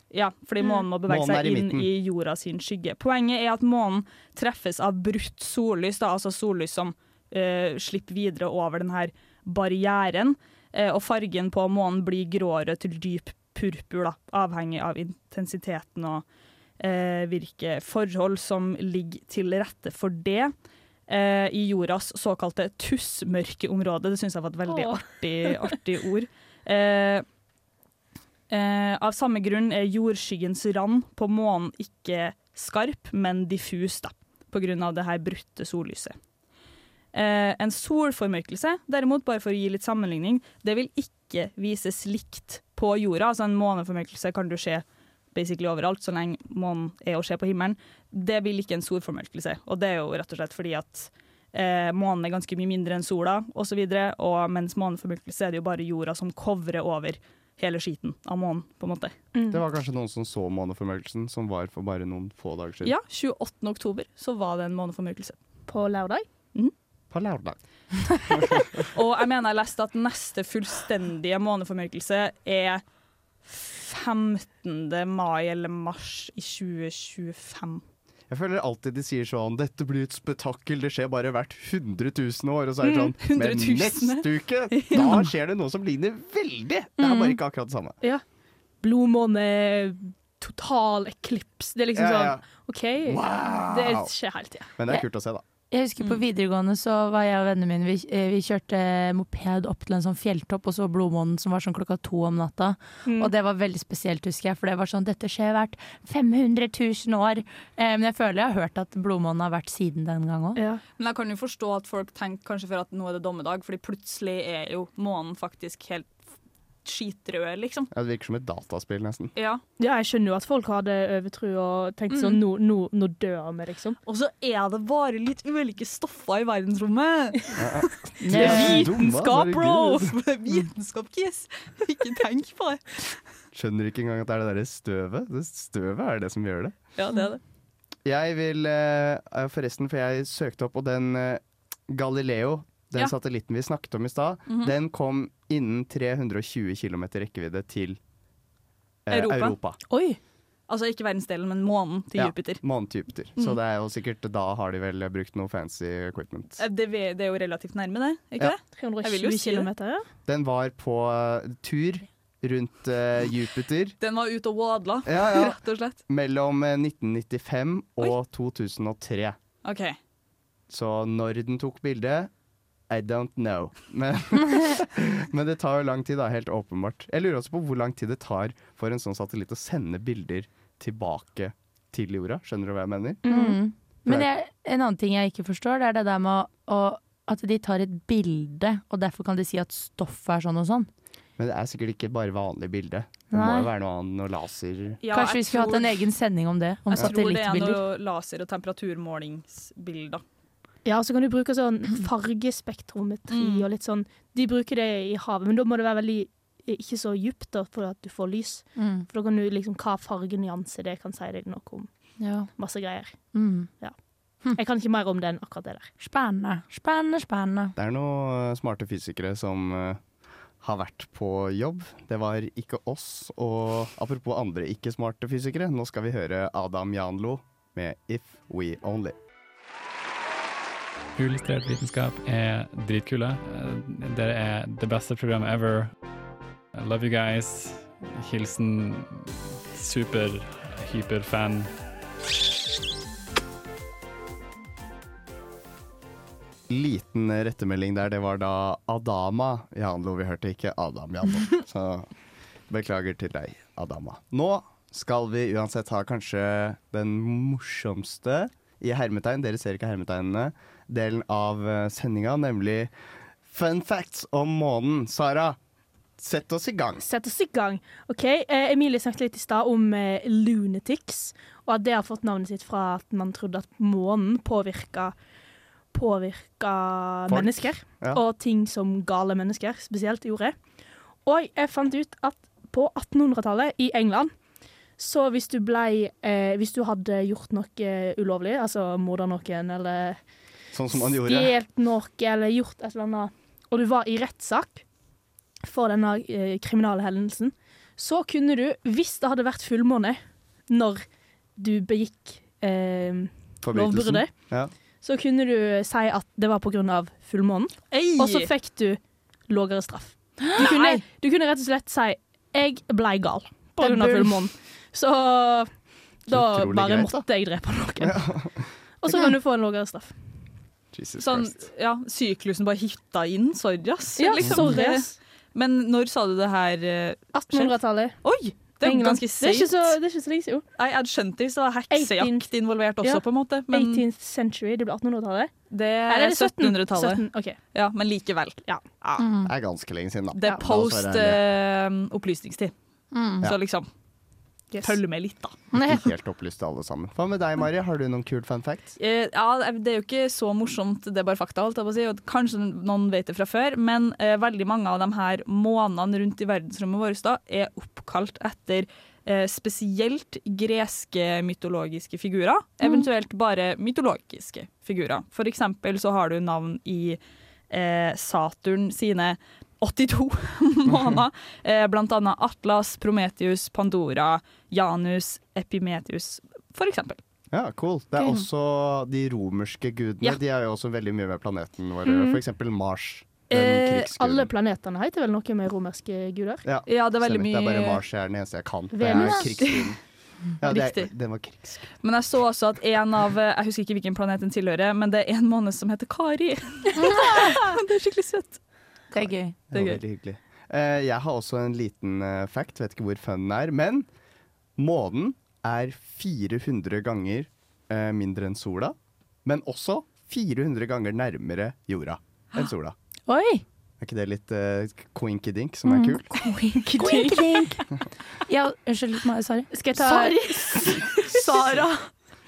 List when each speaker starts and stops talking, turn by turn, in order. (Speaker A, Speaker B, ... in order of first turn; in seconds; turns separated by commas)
Speaker A: 0.1-16.2, Speaker B: 1.1-1.9, Speaker A: 16.8-20.5, Speaker A: 21.1-27.2, Speaker C: 24.7-25.5, Speaker A: 28.5-36.1, Speaker A: 37.1-59.1, Speaker C: 59.3-59.6, Speaker B: 59.5-62.9, Speaker A: 62.8-65.4, Speaker C: 65.7-66.3, Speaker B: 67.1-68.8, Speaker A: 68.9-72.8, Speaker A: 73.5-77.8, Speaker B: 78.3-88.0, Speaker A: 82.8-85.2, Speaker D: 87.0-87.4, Speaker C: 88.8-94.7, Speaker B: 92.0-92.5, Speaker B: 93.0-94.1, Speaker B: 94.8-95.4, Speaker D: 95.7-110.6, Speaker C: 103.1-103.3, Speaker C: 110.6-110.8, Speaker A: 111.0-116.2, Speaker A: 116.8-117.9, Speaker B: 117.9-119.3, Speaker A: 119.4-119.6, Speaker C: 119.8-124.0, Speaker D: 122.1-122.4, Speaker A: 124.1-128.9, Speaker B: 127.6-130.2, Speaker C: 128.2-130.1, Speaker D: 128.3-128.6, Speaker A: 130.0-133.2, Speaker B: 133.5-136.8, Speaker A: 137.0-137.4, Speaker B: 138.1-148.0, Speaker A: 144.5-144.7, Speaker B: 149.1-149.8, Speaker A: 149.1-149.6, Speaker C: 149.9-150.2, Speaker A: 150.7-152.6, Speaker B: 152.2-156.6, Speaker A: 156.6-159.7, Speaker C: 158.8-160.1, Speaker B: 160.3-164.0, Speaker A: 164.0-166.0, Speaker B: 165.1-169.4, Speaker A: 169.7-170.0, Speaker B: 170.7-172.3, Speaker B: 172.9-183.2, Speaker C: 183.2-183.6, Speaker D: 183.3-190.9, Speaker B: 191.4-195.0, Speaker D: 193.3-193.7, Speaker A: 195.0-196.0, Speaker D: 195.1-197.8, Speaker A: 196.9-200.2, Speaker C: 200.8-211.9, Speaker A: 203.3-203.7, Speaker D: 208.8-209.1, Speaker D: 212.2-212.6, Speaker C: 212.5-215.9, Speaker D: 213.3-213.7, Speaker D: 216.0-217.7, Speaker B: 217.8-220.0, Speaker B: 220.6-229.2, Speaker E: 231.2-235.9, Speaker E: 236.7-241.7, Speaker B: 246.7-252.1, Speaker B: 252.7-262.9, Speaker B: 263.5-265.6, Speaker B: 266.2-267.1, Speaker C: 267.0-275.2, Speaker C: 275.9-280.7, Speaker B: 277.3-278.2, Speaker C: 281.2-284.3, Speaker C: 285.0-290.2, Speaker B: 290.7-291.6, Speaker C: 290.9-294.9, Speaker C: 295.6-318.4, Speaker B: 303.6-304.7, Speaker A: 308.1-308.5, Speaker D: 310.4-311.0, Speaker D: 313.8-314.4, Speaker B: 316.3-317.3, Speaker B: 318.0-318.7, Speaker C: 319.0-320.4, Speaker B: 320.9-321.6, Speaker A: 321.2-330.0, Speaker C: 324.2-325.2, Speaker C: 327.3-330.6, Speaker A: 330.8-334.0, Speaker C: 331.9-332.5, Speaker C: 333.0-335.5, Speaker A: 335.7-339.2, Speaker C: 336.1-337.6, Speaker D: 339.2-339.5, Speaker B: 339.5-341.4, Speaker A: 340.4-342.7, Speaker D: 343.1-343.5, Speaker A: 343.4-343.9, Speaker C: 344.7-345.0, Speaker A: 344.8-345.6, Speaker D: 345.7-346.0, Speaker B: 345.8-348.9, Speaker A: 349.0-367.2, Speaker A: 367.7-377.2, Speaker B: 377.5-384.5, Speaker C: 382.1-382.4, Speaker C: 383.5-386.6, Speaker B: 386.6-390.0, Speaker A: 386.9-388.0, Speaker C: 388.9-389.7, Speaker B: 390.6-391.9, Speaker A: 390.6-391.1, Speaker A: 392.0-398.6, Speaker D: 397.0-397.6, Speaker D: 399.1-399.6, Speaker B: 399.1-404.1, Speaker A: 399.7-400.0, Speaker B: 404.8-412.9, Speaker D: 413.3-413.6, Speaker B: 414.0-416.3, Speaker D: 415.9-417.9, Speaker C: 416.4-417.6, Speaker D: 418.5-422.1, Speaker C: 419.7-421.8